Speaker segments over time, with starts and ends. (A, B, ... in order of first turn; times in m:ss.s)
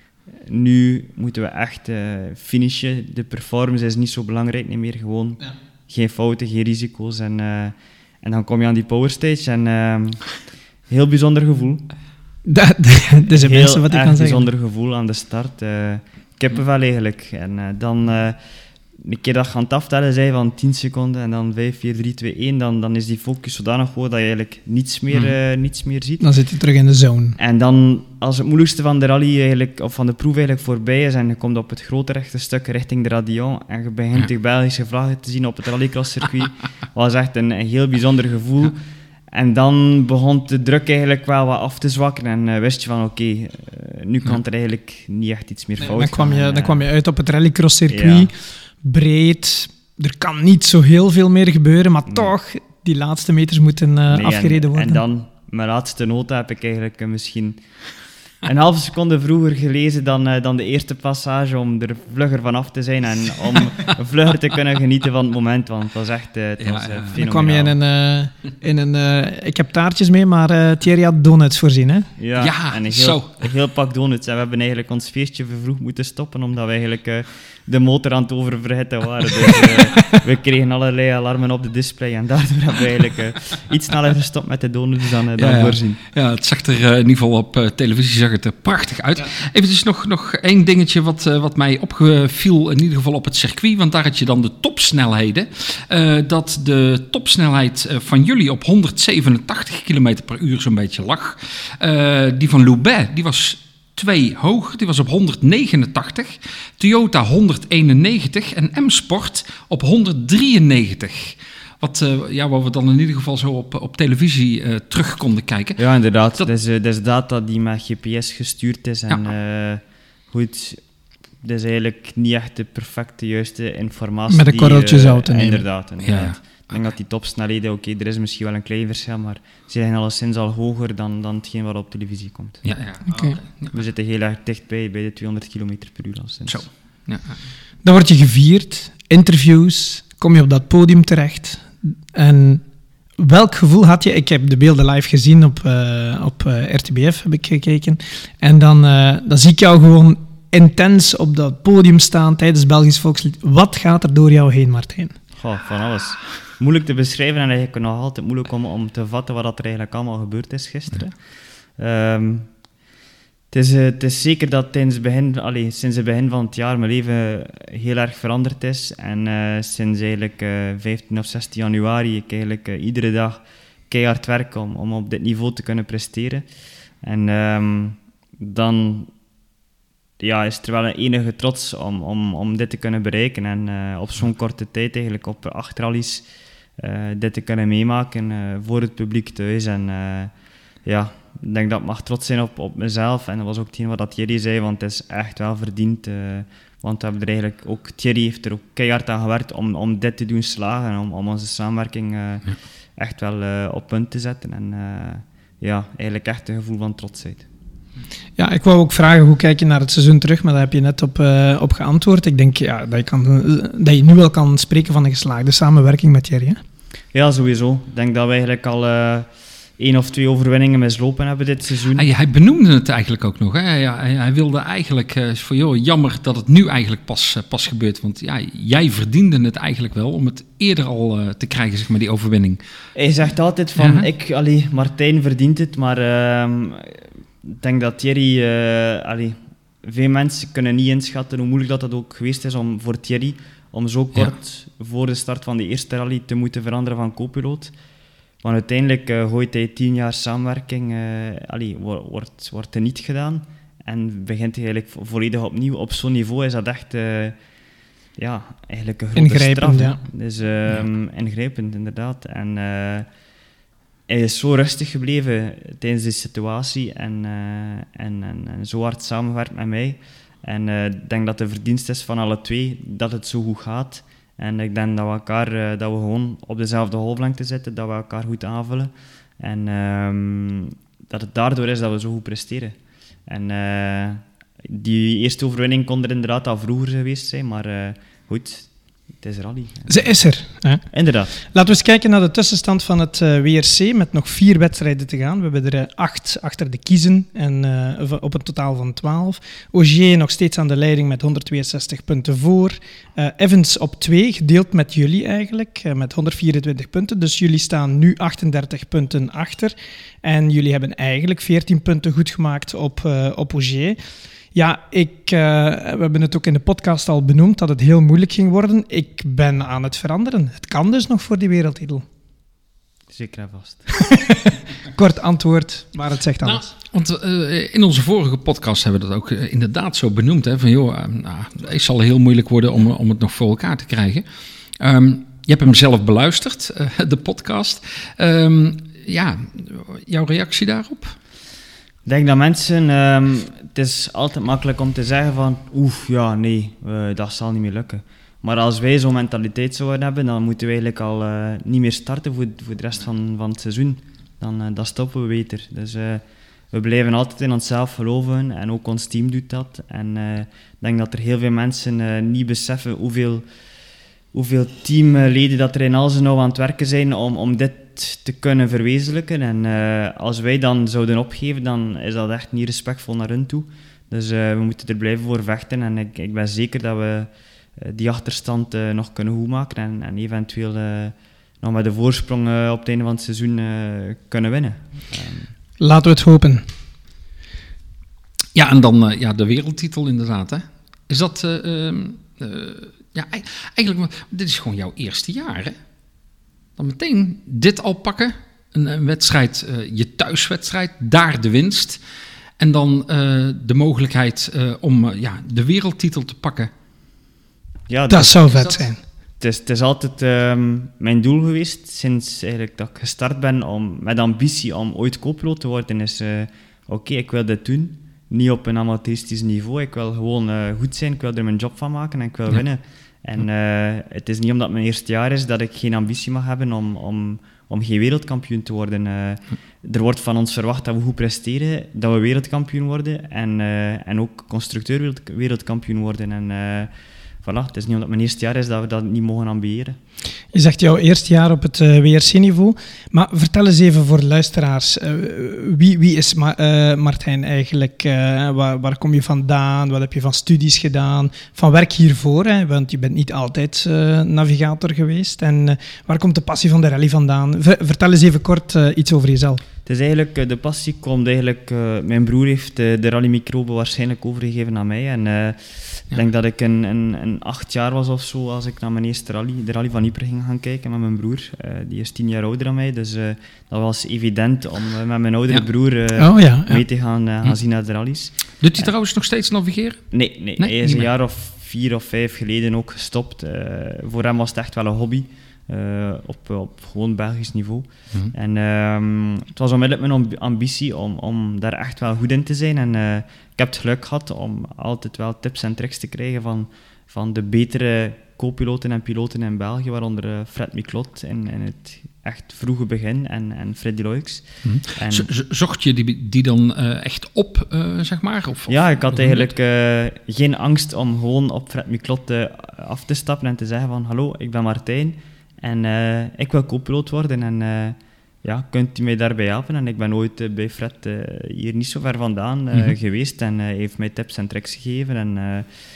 0:00.4-0:11.8 A
0:12.4-0:14.5 B
0:13.3-0:18.4 A
0:19.0-0:26.3 A
0:26.2-0:27.4 B
0:27.4-0:38.8 A
0:39.3-0:46.9 A
0:45.8-0:48.3 B
0:47.9-0:48.3 A
0:48.8-0:55.0 B
0:52.1-0:52.3 A
0:54.1-0:57.6 A
0:58.4-1:07.8 A
1:06.6-1:07.1 C
1:07.2-1:12.1 B
1:12.2-1:26.0 A
1:12.4-1:13.3 C
1:25.4-1:55.8 C
1:55.8-2:00.8 A
2:01.4-2:12.6 A
2:04.3-2:05.6 B
2:06.0-2:06.7 C
2:12.6-2:13.7 C
2:13.1-2:13.4 B
2:13.7-2:16.6 A
2:16.5-2:17.4 C
2:17.8-2:22.6 B
2:23.2-2:35.2 B
2:35.4-2:41.2 A
2:41.8-2:42.6 A
2:43.5-2:56.5 A
2:57.0-2:59.1 A
3:00.2-3:06.3 A
3:06.8-3:10.3 A
3:10.8-3:27.5 A
3:28.4-3:36.6 B
3:37.1-3:42.0 A
3:42.0-3:52.6 C
3:53.0-4:07.7 A
3:53.8-3:54.0 C
4:08.4-4:17.4 A
4:18.2-4:23.1 A
4:19.2-4:20.0 B
4:24.1-4:50.2 A
4:49.9-4:50.9 B
4:50.9-4:51.3 A
4:51.4-5:14.0 B
5:14.5-5:22.0 B
5:23.1-5:23.9 A
5:24.0-5:26.7 B
5:26.4-5:34.2 C
5:34.8-5:41.2 C
5:42.1-6:03.5 A
6:04.3-6:25.5 A
6:25.8-6:26.6 B
6:28.5-6:35.8 C
6:36.8-6:42.0 C
6:42.6-6:46.7 C
6:47.9-7:20.0 A
6:48.1-6:49.0 B
7:20.5-7:39.6 B
7:39.9-7:58.9 A
7:56.2-7:56.8 B
7:58.6-8:01.1 C
8:00.1-8:25.3 A
8:24.6-8:29.5 C
8:28.7-8:45.7 A